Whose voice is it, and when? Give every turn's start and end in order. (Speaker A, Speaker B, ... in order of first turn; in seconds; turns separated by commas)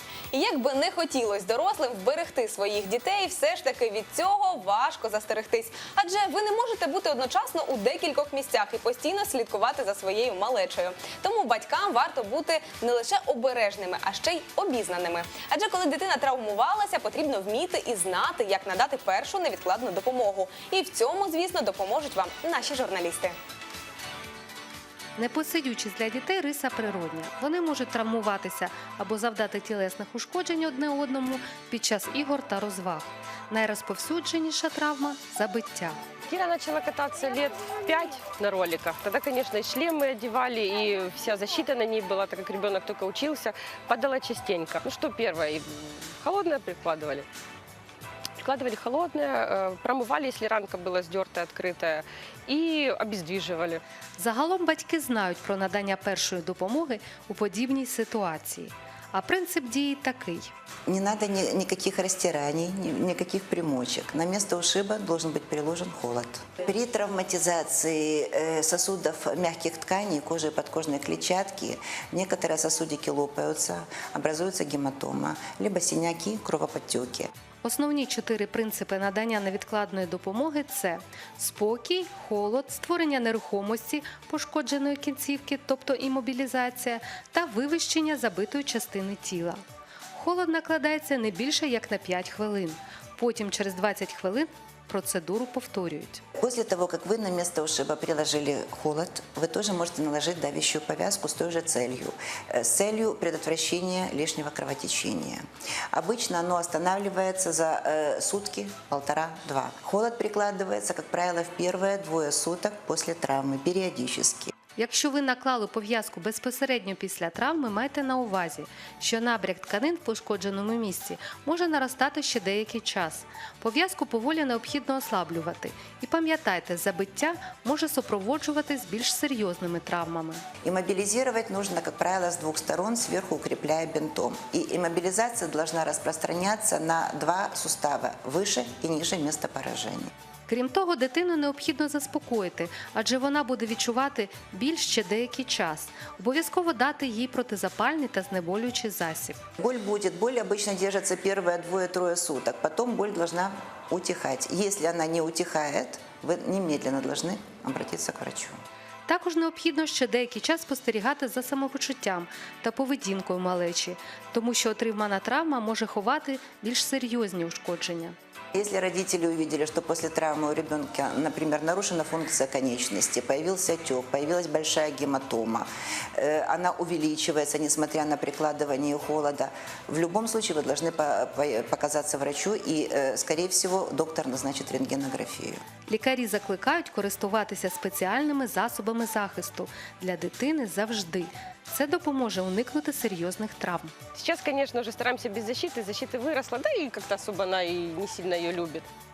Speaker A: 0.3-23.3, Speaker B: 25.2-36.0, Speaker C: 36.3-47.3, Speaker C: 48.4-53.8, Speaker B: 54.2-60.5, Speaker D: 60.9-77.3, Speaker B: 77.6-89.6, Speaker B: 90.1-96.2, Speaker D: 96.4-114.5, Speaker B: 114.8-130.4, Speaker D: 130.6-140.1, Speaker B: 140.5-149.4, Speaker D: 149.6-158.6, Speaker B: 159.1-168.2, Speaker D: 168.5-185.6, Speaker B: 185.9-193.9, Speaker C: 194.1-198.9